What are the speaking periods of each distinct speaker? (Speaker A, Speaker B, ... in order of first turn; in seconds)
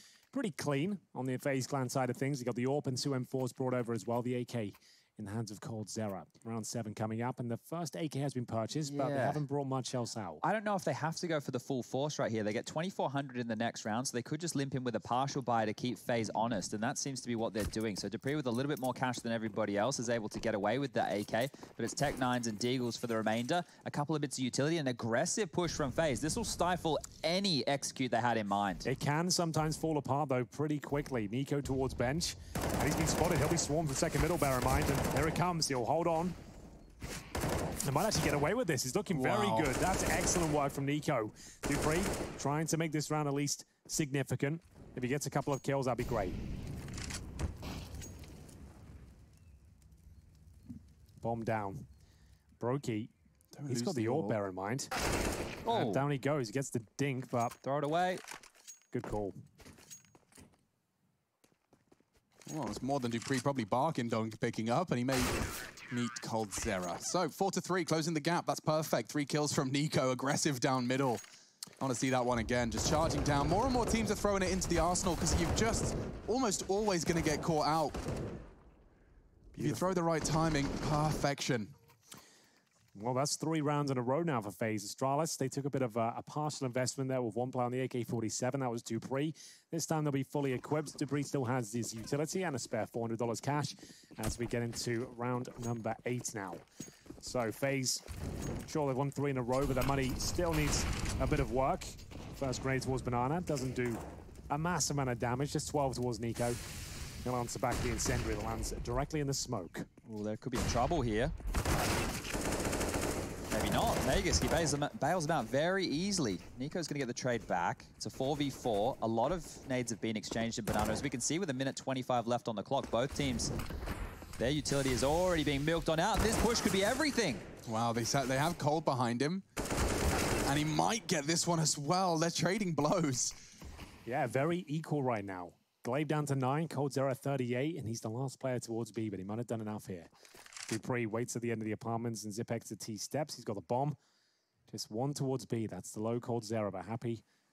Speaker A: 0.3-10.4, 28.8-36.4, 37.8-46.4, 51.2-51.9, 52.6-53.1, 53.7-54.9, 55.7-57.5, 58.9-59.3, 82.9-96.6, 97.2-98.0, 98.7-106.6, 107.2-109.9, 134.1-140.1, 140.7-143.9, 144.7-147.2
Speaker B: 8.8-9.4, 10.4-28.9, 55.6-56.0, 57.6-58.2, 110.0-111.3, 113.5-123.5, 124.4-127.5
Speaker C: 39.1-39.7, 53.5-54.4, 62.5-65.4, 65.9-71.2, 71.8-78.0, 79.5-81.7, 127.7-129.4, 130.4-133.3